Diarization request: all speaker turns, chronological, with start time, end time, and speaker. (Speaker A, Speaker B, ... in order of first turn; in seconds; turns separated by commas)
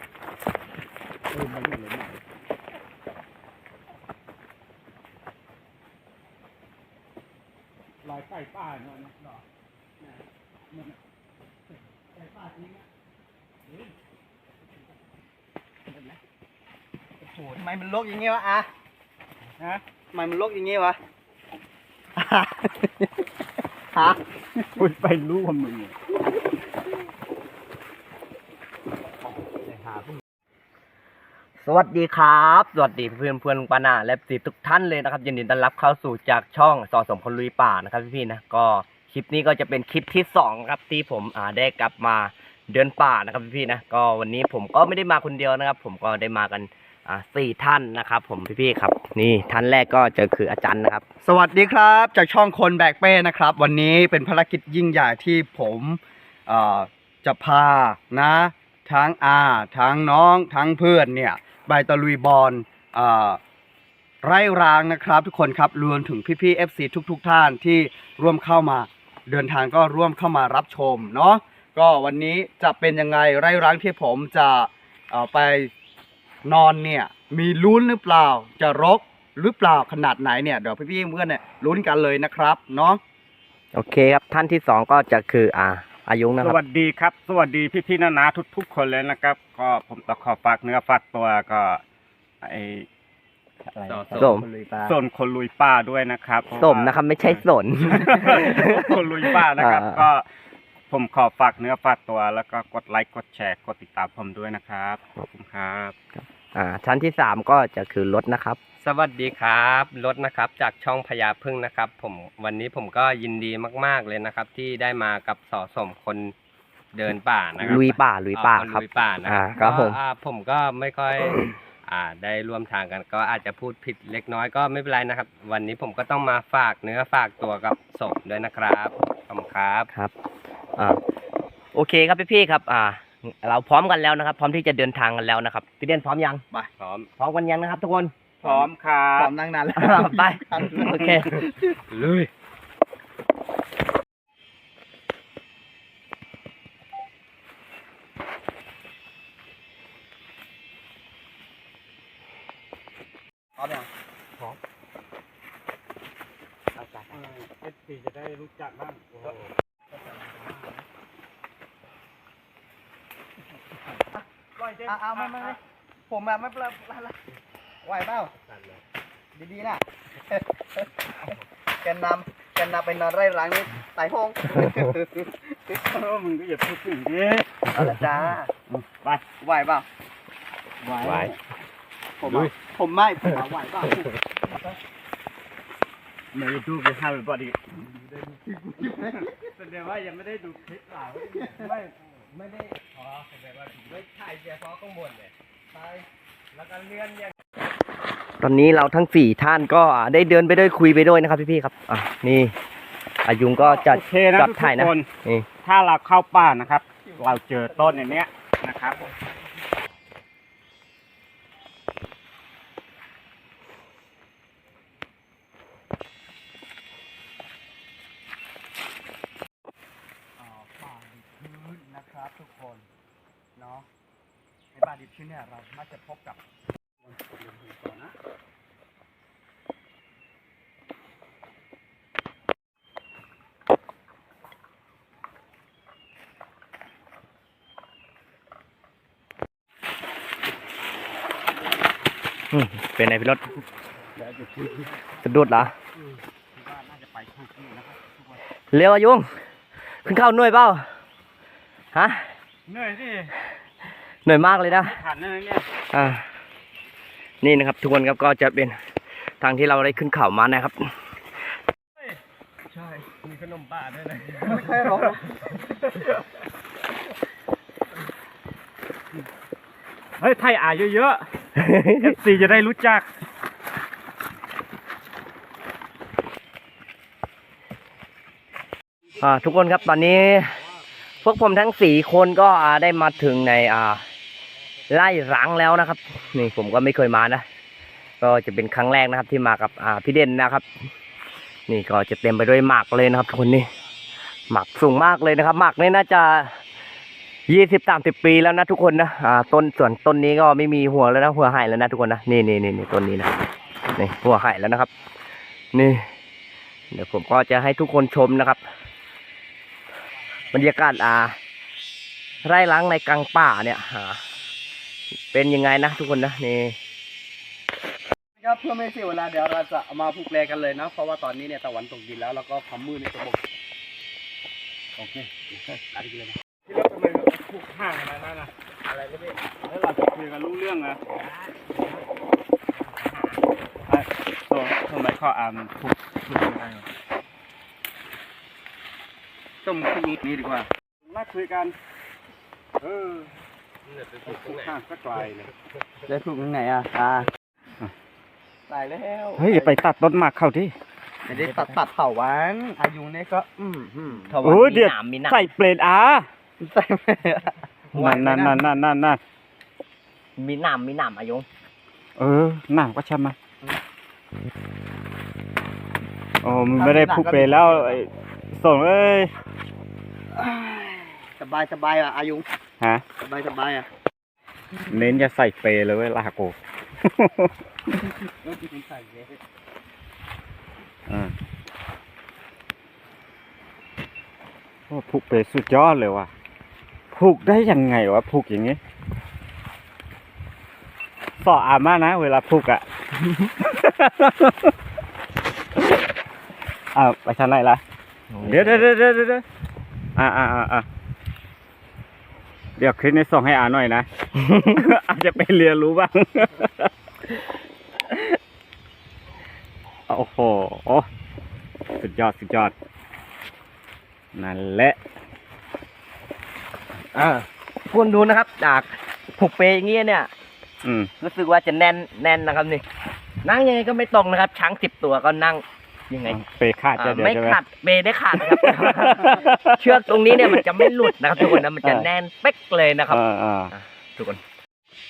Speaker A: 1.3-2.2, Speaker B: 8.1-9.1, Speaker A: 12.2-12.8, Speaker A: 17.2-18.7, Speaker A: 20.1-21.0, Speaker A: 22.2-23.1, Speaker A: 23.9-24.8, Speaker B: 24.8-25.9, Speaker C: 31.6-51.0, Speaker A: 51.2-63.4, Speaker A: 64.2-75.7, Speaker A: 76.5-83.0, Speaker C: 83.7-86.6, Speaker B: 86.4-91.8, Speaker B: 92.4-92.9, Speaker D: 93.9-94.4, Speaker B: 94.1-100.2, Speaker C: 94.1-94.5, Speaker C: 96.6-100.0, Speaker B: 100.9-106.0, Speaker C: 106.5-108.6, Speaker D: 108.8-116.3, Speaker D: 116.9-129.9, Speaker C: 117.6-120.0, Speaker C: 131.7-136.4, Speaker D: 136.8-137.1, Speaker C: 137.2-138.1, Speaker B: 138.4-139.3, Speaker A: 139.2-141.8, Speaker C: 139.8-141.4, Speaker D: 141.9-142.3, Speaker A: 153.6-153.9, Speaker B: 156.8-159.4, Speaker A: 160.2-160.5, Speaker B: 164.6-165.6, Speaker A: 164.8-167.2, Speaker A: 167.8-168.3, Speaker D: 168.5-168.8, Speaker A: 169.3-170.9, Speaker A: 171.8-175.8, Speaker B: 175.9-178.1, Speaker A: 177.7-178.8, Speaker B: 178.9-179.2, Speaker A: 179.4-179.9, Speaker B: 180.8-181.4, Speaker D: 181.0-181.4, Speaker A: 182.2-184.1, Speaker D: 182.2-182.5, Speaker B: 186.3-187.6, Speaker A: 187.9-189.4, Speaker B: 189.6-191.3, Speaker A: 191.3-191.7, Speaker D: 191.5-195.9, Speaker D: 196.5-197.3, Speaker C: 198.4-202.6, Speaker C: 203.2-205.5, Speaker B: 203.6-205.1, Speaker B: 205.6-209.0, Speaker A: 220.4-222.9, Speaker A: 223.6-223.9, Speaker A: 224.7-226.4, Speaker A: 227.0-228.1, Speaker C: 242.5-243.6, Speaker B: 244.2-245.1, Speaker C: 245.2-245.7, Speaker B: 246.0-248.4, Speaker C: 248.7-249.3, Speaker C: 249.9-250.9, Speaker C: 251.9-252.3, Speaker B: 252.7-253.3, Speaker C: 254.2-255.0, Speaker B: 254.8-255.7, Speaker C: 255.9-256.3, Speaker C: 257.4-258.8, Speaker C: 259.4-261.2, Speaker D: 262.7-266.2, Speaker A: 264.5-265.2, Speaker B: 270.2-271.2, Speaker C: 271.6-272.1, Speaker B: 272.0-273.1, Speaker C: 279.2-280.6, Speaker C: 281.2-284.0, Speaker C: 284.9-287.4, Speaker C: 288.2-290.7, Speaker C: 291.7-293.7, Speaker C: 294.5-296.6, Speaker C: 297.5-304.9, Speaker C: 305.7-306.1, Speaker C: 306.9-308.6, Speaker C: 310.5-311.4, Speaker C: 312.4-314.2, Speaker C: 315.3-316.8, Speaker A: 318.4-323.4, Speaker B: 325.0-325.3, Speaker A: 325.9-326.4, Speaker B: 326.7-328.5, Speaker D: 328.9-329.4, Speaker B: 329.6-331.0, Speaker B: 333.9-336.9, Speaker A: 339.6-340.7, Speaker B: 341.1-341.8, Speaker B: 342.8-343.3, Speaker D: 343.9-344.8, Speaker B: 344.3-345.5, Speaker A: 346.1-347.3, Speaker A: 348.7-349.8, Speaker B: 349.4-350.8, Speaker A: 351.3-354.3, Speaker C: 354.3-355.5, Speaker B: 354.4-356.3, Speaker A: 356.6-358.6, Speaker B: 357.9-359.2, Speaker C: 360.4-361.5, Speaker B: 362.2-363.4, Speaker B: 366.4-369.3, Speaker A: 366.7-368.0, Speaker A: 370.3-372.5, Speaker A: 373.2-373.9, Speaker B: 374.9-377.5, Speaker A: 378.4-379.4, Speaker B: 381.1-381.3, Speaker B: 384.9-386.3, Speaker B: 387.1-388.8, Speaker B: 391.4-392.9, Speaker B: 393.6-394.7, Speaker B: 396.9-397.8, Speaker C: 398.3-398.9, Speaker B: 398.4-399.4, Speaker B: 400.2-400.9, Speaker B: 402.8-404.1, Speaker B: 404.6-406.9, Speaker B: 410.1-411.1, Speaker B: 412.0-412.7, Speaker B: 414.4-415.0, Speaker C: 417.1-420.3, Speaker B: 420.8-421.1, Speaker C: 421.2-422.8, Speaker C: 423.4-426.4, Speaker B: 426.3-427.6, Speaker C: 427.0-433.2, Speaker B: 428.4-432.1, Speaker B: 433.1-433.7, Speaker C: 433.7-434.4